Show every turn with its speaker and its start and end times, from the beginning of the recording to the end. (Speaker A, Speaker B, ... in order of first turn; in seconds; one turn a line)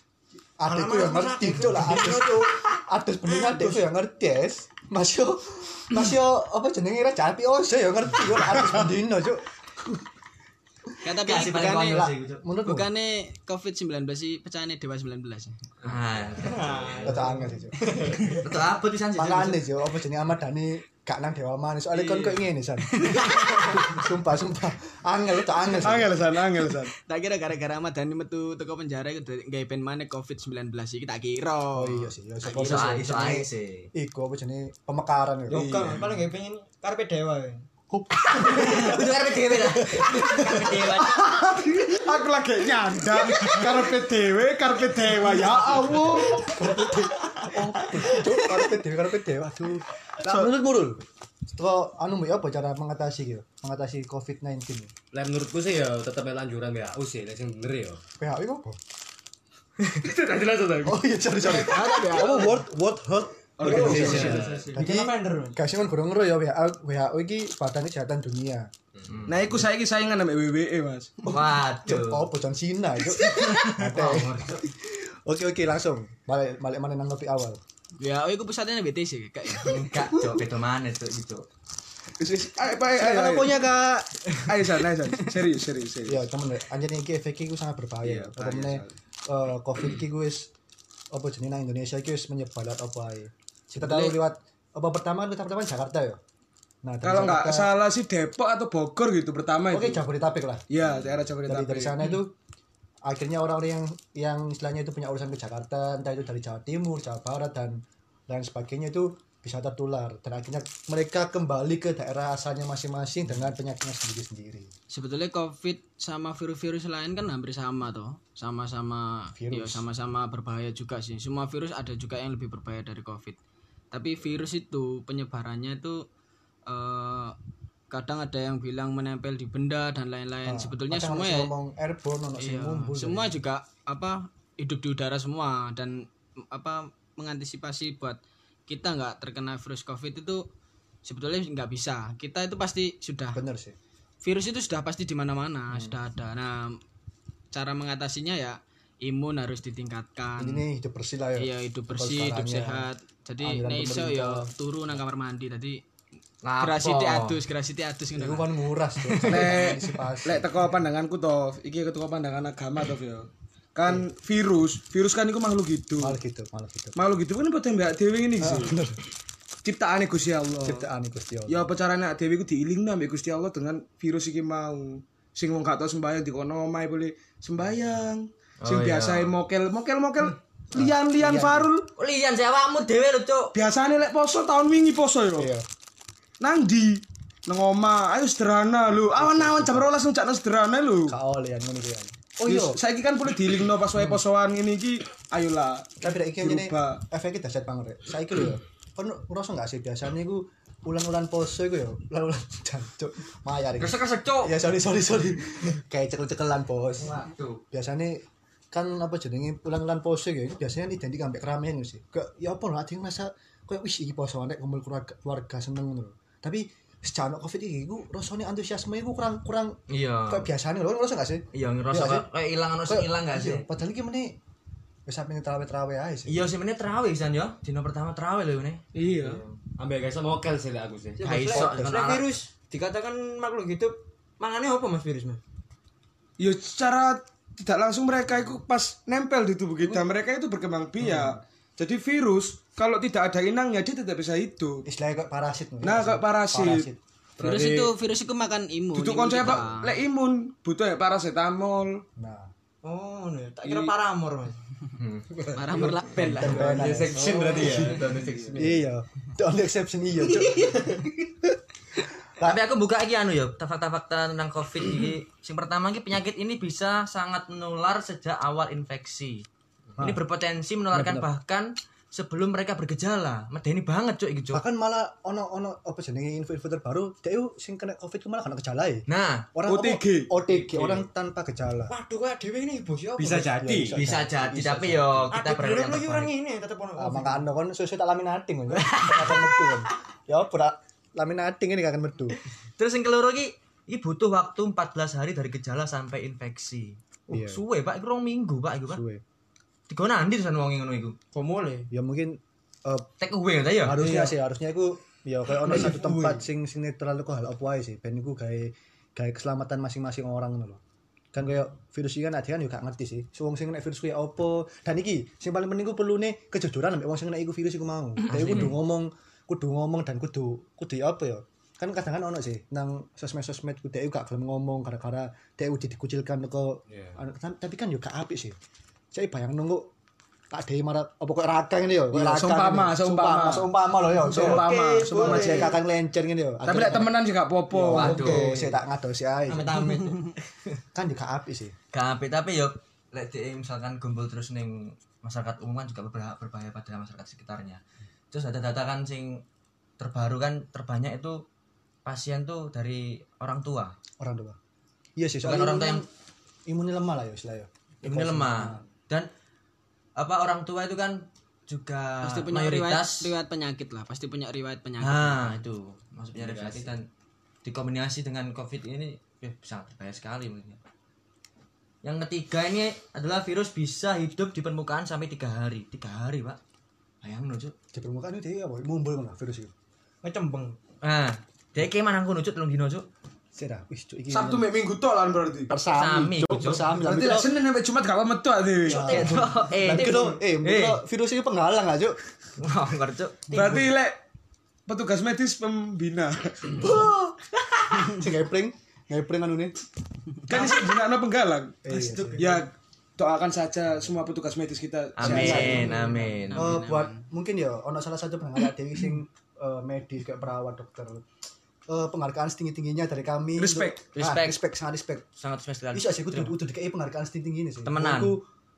Speaker A: 0.6-10.0
Speaker B: 0.7-2.6
Speaker C: 11.0-12.1
Speaker D: 11.2-12.4
Speaker A: 11.7-12.9
Speaker C: 12.6-15.6
Speaker D: 15.8-17.1
Speaker B: 16.4-18.1
Speaker A: 17.0-17.9
Speaker D: 18.4-19.7
Speaker A: 19.2-26.3
Speaker B: 21.9-22.4
Speaker C: 23.0-23.9
Speaker E: 25.8-26.9
Speaker C: 27.1-32.1
Speaker A: 31.7-35.8
Speaker D: 32.4-33.9
Speaker B: 35.5-37.7
Speaker E: 35.5-36.2
Speaker A: 37.9-39.1
Speaker D: 38.3-41.3
Speaker A: 39.8-40.6
Speaker E: 41.0-46.5
Speaker A: 43.3-44.1
Speaker A: 45.3-54.9
Speaker E: 50.2-50.5
Speaker F: 55.1-58.0
Speaker A: 58.2-58.8
Speaker F: 59.8-61.8
Speaker A: 60.8-68.7
Speaker C: 61.4-62.6
Speaker E: 63.6-64.4
Speaker B: 63.6-65.6
Speaker F: 63.7-64.8
Speaker E: 69.3-71.2
Speaker D: 71.3-72.3
Speaker A: 71.3-77.6
Speaker D: 73.3-74.5
Speaker C: 78.0-79.8
Speaker D: 79.6-81.5
Speaker E: 82.2-86.2
Speaker A: 82.9-84.0
Speaker A: 86.1-90.5
Speaker E: 88.1-88.9
Speaker A: 91.1-96.2
Speaker E: 93.8-94.2
Speaker A: 96.8-97.7
Speaker E: 97.0-100.0
Speaker A: 99.7-100.7
Speaker E: 100.7-102.2
Speaker A: 101.5-102.3
Speaker A: 103.0-114.7
Speaker C: 114.9-123.4
Speaker A: 119.3-119.8
Speaker C: 123.9-126.1
Speaker C: 126.7-127.3
Speaker C: 127.9-131.5
Speaker A: 130.4-133.4
Speaker C: 132.4-140.5
Speaker C: 141.0-143.4
Speaker A: 143.3-143.8
Speaker C: 144.2-146.8
Speaker C: 147.5-150.7
Speaker A: 150.4-154.5
Speaker C: 151.4-155.8
Speaker D: 156.4-157.4
Speaker C: 156.6-159.6
Speaker A: 158.2-160.6
Speaker E: 159.3-166.2
Speaker A: 166.0-167.0
Speaker E: 166.9-168.8
Speaker A: 168.4-169.0
Speaker E: 169.6-170.9
Speaker A: 170.6-171.7
Speaker E: 171.5-181.9
Speaker D: 178.6-179.4
Speaker A: 180.7-181.7
Speaker D: 182.0-183.5
Speaker E: 183.5-185.5
Speaker A: 185.4-185.7
Speaker E: 186.4-191.2
Speaker A: 189.2-189.9
Speaker A: 191.1-192.8
Speaker E: 192.5-197.0
Speaker A: 196.0-222.3
Speaker D: 203.8-204.6
Speaker B: 207.0-207.6
Speaker D: 219.9-220.5
Speaker D: 221.5-223.7
Speaker A: 222.8-224.4
Speaker A: 225.1-226.5
Speaker D: 226.3-228.8
Speaker E: 228.9-229.4
Speaker F: 229.8-231.3
Speaker B: 231.2-235.4
Speaker D: 231.2-232.4
Speaker A: 231.5-231.9
Speaker E: 236.4-244.8
Speaker A: 241.0-241.4
Speaker A: 244.9-247.0
Speaker E: 245.8-246.9
Speaker F: 247.4-247.9
Speaker C: 247.4-249.9
Speaker E: 248.9-252.0
Speaker A: 252.2-252.5
Speaker B: 252.8-254.6
Speaker E: 253.7-253.9
Speaker F: 255.3-258.9
Speaker C: 255.6-256.8
Speaker A: 256.2-257.2
Speaker B: 257.2-257.8
Speaker A: 258.6-261.2
Speaker D: 262.4-269.4
Speaker A: 270.0-270.2
Speaker D: 270.0-274.6
Speaker A: 270.9-271.3
Speaker A: 274.5-281.9
Speaker D: 279.1-279.5
Speaker E: 279.7-280.3
Speaker B: 281.9-283.5
Speaker F: 283.2-284.0
Speaker A: 283.3-285.3
Speaker D: 283.9-286.3
Speaker B: 285.3-287.4
Speaker A: 287.0-292.4
Speaker D: 288.8-289.5
Speaker D: 292.8-299.0
Speaker A: 297.3-297.6
Speaker A: 298.9-299.2
Speaker D: 299.9-301.2
Speaker B: 301.3-301.9
Speaker A: 301.9-303.1
Speaker D: 303.2-304.0
Speaker A: 303.8-310.8
Speaker B: 305.7-306.4
Speaker A: 311.3-328.6
Speaker D: 318.3-318.8
Speaker F: 326.9-327.2
Speaker A: 329.1-329.9
Speaker A: 330.5-337.1
Speaker E: 332.1-335.8
Speaker B: 334.3-335.8
Speaker E: 336.7-338.2
Speaker A: 337.7-339.9
Speaker B: 337.9-338.8
Speaker D: 337.9-338.5
Speaker B: 339.5-340.4
Speaker A: 340.9-341.8
Speaker D: 341.9-349.4
Speaker D: 350.0-351.4
Speaker D: 352.1-354.0
Speaker A: 354.2-354.6
Speaker A: 355.2-356.1
Speaker D: 355.4-356.0
Speaker A: 356.7-358.8
Speaker D: 358.0-359.3
Speaker D: 360.2-363.3
Speaker C: 362.2-365.6
Speaker D: 365.0-367.1
Speaker F: 366.4-366.9
Speaker D: 367.6-370.8
Speaker D: 372.0-376.6
Speaker D: 377.2-377.7
Speaker A: 377.9-379.7
Speaker B: 380.2-380.8
Speaker D: 381.0-383.1
Speaker A: 383.6-384.7
Speaker E: 384.3-385.7
Speaker A: 385.7-387.5
Speaker D: 385.9-386.9
Speaker E: 387.0-389.4
Speaker A: 388.9-392.2
Speaker D: 388.9-391.0
Speaker D: 392.6-393.6
Speaker E: 393.5-394.2
Speaker A: 393.5-393.9
Speaker E: 394.9-396.9
Speaker A: 396.7-399.8
Speaker E: 400.5-401.8
Speaker A: 401.8-402.6
Speaker B: 401.9-402.5
Speaker E: 402.4-406.0
Speaker D: 405.2-406.8
Speaker A: 405.2-411.2
Speaker C: 405.8-407.2
Speaker A: 411.9-415.2
Speaker E: 413.6-414.1
Speaker D: 414.1-414.6
Speaker D: 415.4-416.6
Speaker A: 415.9-418.4
Speaker D: 417.9-418.4